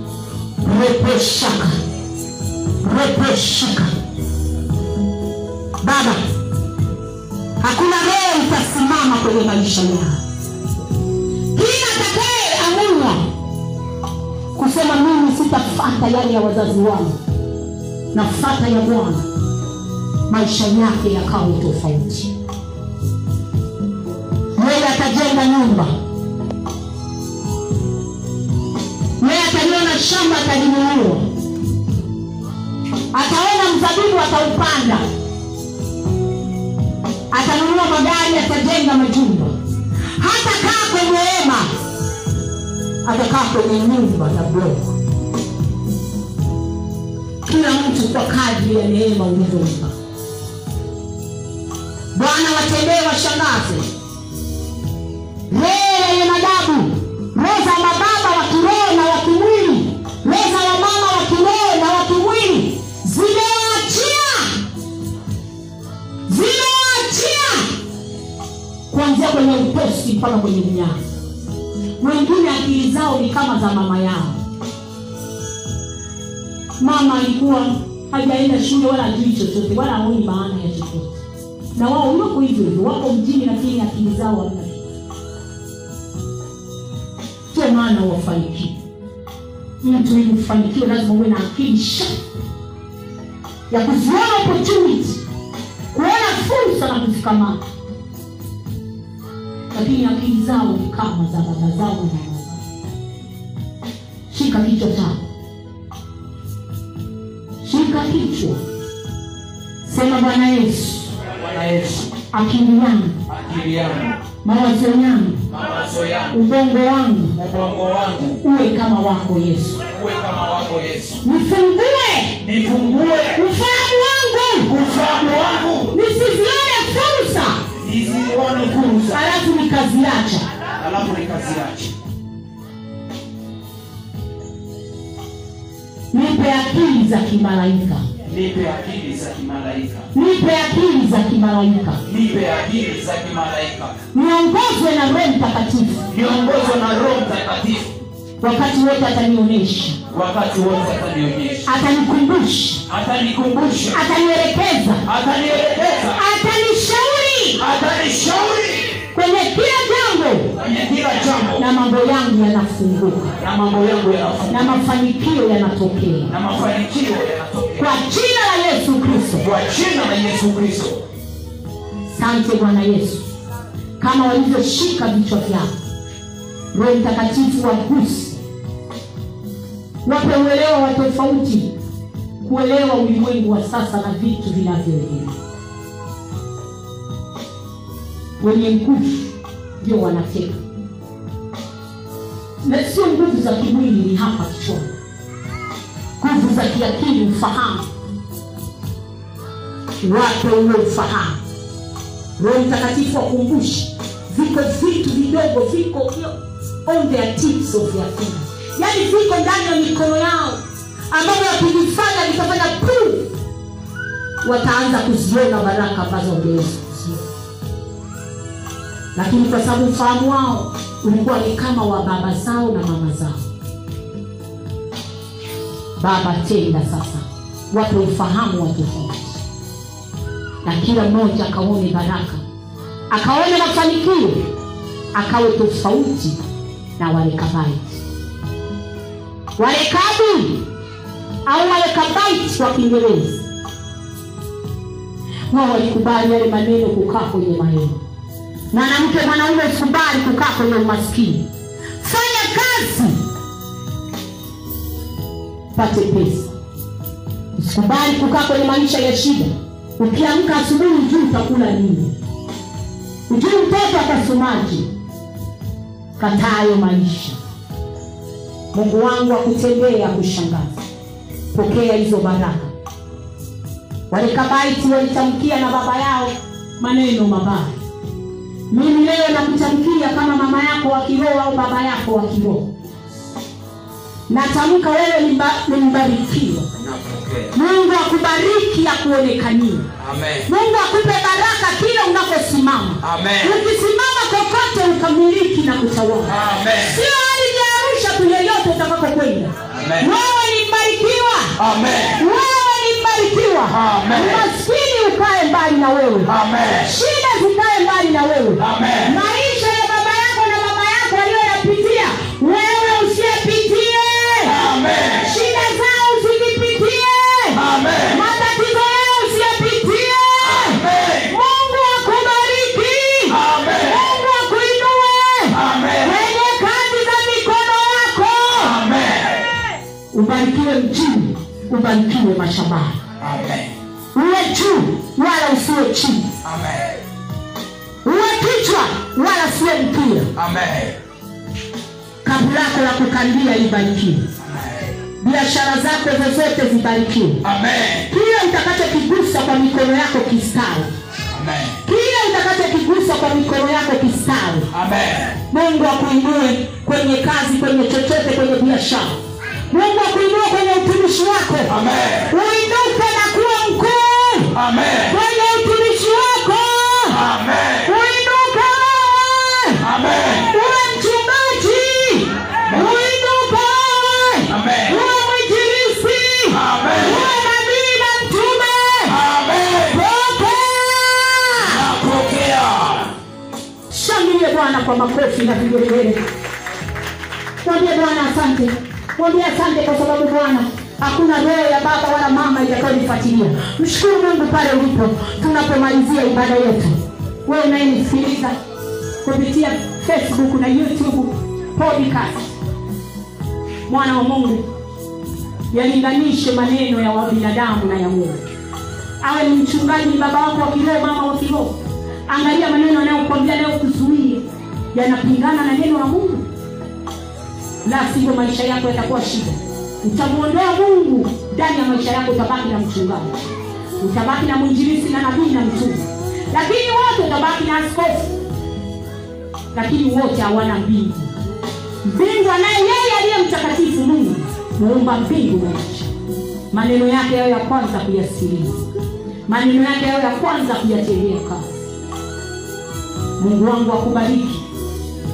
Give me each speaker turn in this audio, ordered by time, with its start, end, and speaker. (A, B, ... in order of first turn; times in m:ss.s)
0:00.6-0:01.8 A
0:02.8-0:03.9 A
0:05.8-0:06.2 A
0:07.6-0:10.2 A
0:11.5-0:13.3 A
0:14.6-0:17.2 A
0:18.1-0:19.3 A
0:20.3-0:22.3 A
0:24.6-0:25.9 A
0:29.2-0:31.3 A
0:33.1-0:35.0 A
0:37.3-0:39.5 A
0:40.2-0:41.7 A
0:43.0-0:44.9 A
0:47.4-0:49.9 A
0:52.1-0:53.9 A
0:55.5-1:04.6 A
1:06.3-1:07.8 A
1:08.9-1:11.0 A
1:12.0-1:14.4 A
1:16.8-1:21.2 A
1:21.8-1:24.9 A
1:27.5-1:28.8 A
1:29.8-1:32.2 A
1:33.7-1:35.2 A
1:35.9-1:37.6 A
1:39.7-1:42.6 A
1:44.3-1:45.3 A
1:47.6-1:48.6 A
1:49.8-1:51.2 A
1:51.3-1:52.1 B
1:52.3-1:53.2 A
1:53.3-1:54.2 B
1:54.4-1:55.5 A
1:55.5-1:56.4 B
1:56.3-1:57.4 A
1:57.4-1:58.4 B
1:58.4-1:59.8 A
1:59.9-2:01.2 B
2:01.2-2:02.4 A
2:02.4-2:03.4 B
2:03.3-2:04.7 A
2:04.7-2:06.0 B
2:05.9-2:07.6 A
2:07.8-2:09.3 B
2:09.1-2:10.5 A
2:10.8-2:12.0 B
2:16.1-2:18.0 A
2:18.3-2:20.1 B
2:20.1-2:22.0 A
2:22.0-2:24.0 B
2:24.1-2:26.1 A
2:26.1-2:28.0 B
2:28.4-2:30.0 A
2:30.1-2:31.6 B
2:31.6-2:32.8 A
2:32.9-2:34.0 B
2:33.9-2:35.1 A
2:35.1-2:36.2 B
2:36.1-2:37.6 A
2:37.6-2:39.0 B
2:39.1-2:40.6 A
2:40.6-2:41.6 B
2:41.6-2:43.4 A
2:43.4-2:44.8 B
2:44.5-2:46.3 A
2:46.3-2:47.9 B
2:47.8-2:49.5 A
2:49.4-2:51.0 B
2:52.1-2:53.4 A
2:54.0-2:55.7 A
2:56.7-2:58.4 A
3:00.0-3:01.7 A
3:02.4-3:05.4 A
3:08.4-3:10.6 A
3:12.6-3:14.9 A
3:16.2-3:17.9 A
3:20.0-3:21.4 A
3:22.4-3:26.3 A
3:26.9-3:33.3 A
3:34.4-3:37.2 A
3:39.2-3:43.5 A
3:46.0-3:49.4 A
3:50.6-3:52.4 A
3:53.1-3:54.5 A
3:55.1-3:56.4 A
3:57.0-3:58.0 A
3:59.6-4:00.7 A
4:01.5-4:03.4 A
4:05.5-4:08.0 A
4:08.7-4:11.5 A
4:12.0-4:13.2 A
4:15.7-4:16.5 A
4:17.6-4:22.1 A
4:23.3-4:24.9 A
4:26.2-4:27.4 A
4:28.7-4:30.8 A
4:31.5-4:32.7 A
4:34.1-4:37.8 A
4:38.7-4:42.7 A
4:44.3-4:46.7 A
4:46.8-4:47.6 B
4:47.5-4:49.9 A
4:50.0-4:50.5 B
4:50.5-5:01.6 A
4:53.0-4:53.6 B
4:56.3-4:57.0 B
4:59.7-5:00.1 B
5:01.6-5:02.3 B
5:02.2-5:14.6 A
5:03.7-5:04.5 B
5:06.3-5:06.9 B
5:08.6-5:09.2 B
5:14.4-5:15.4 B
5:15.2-5:28.8 A
5:17.5-5:18.2 B
5:20.4-5:21.3 B
5:23.3-5:24.1 B
5:25.5-5:26.3 B
5:28.5-5:29.5 B
5:30.1-5:33.0 A
5:33.2-5:33.8 B
5:34.1-5:36.4 A
5:36.4-5:36.9 B
5:38.0-5:40.3 A
5:40.4-5:41.0 B
5:42.2-5:44.3 A
5:44.4-5:44.9 B
5:45.2-5:47.4 A
5:47.4-5:48.1 B
5:48.1-5:50.9 A
5:51.3-5:51.8 B
5:51.9-5:54.7 A
5:54.7-5:55.4 B
5:55.5-5:59.2 A
5:59.7-6:01.8 A
6:01.7-6:02.3 B
6:02.3-6:07.2 A
6:04.5-6:05.2 B
6:07.1-6:07.9 B
6:07.8-6:09.8 A
6:09.8-6:10.6 B
6:10.4-6:19.2 A
6:12.7-6:13.0 B
6:14.5-6:15.0 B
6:16.5-6:17.3 B
6:19.1-6:20.0 B
6:19.8-6:21.8 A
6:21.6-6:23.2 B
6:23.9-6:26.2 A
6:27.6-6:38.6 A
6:39.2-6:42.6 A
6:43.9-6:44.7 A
6:45.7-6:48.4 A
6:49.2-6:51.8 A
6:52.3-6:54.4 A
6:54.9-6:56.5 A
6:57.8-7:03.5 A
7:04.0-7:08.4 A
7:09.7-7:11.3 A
7:12.0-7:16.1 A
7:16.7-7:18.8 A
7:19.5-7:21.7 A
7:23.4-7:24.7 A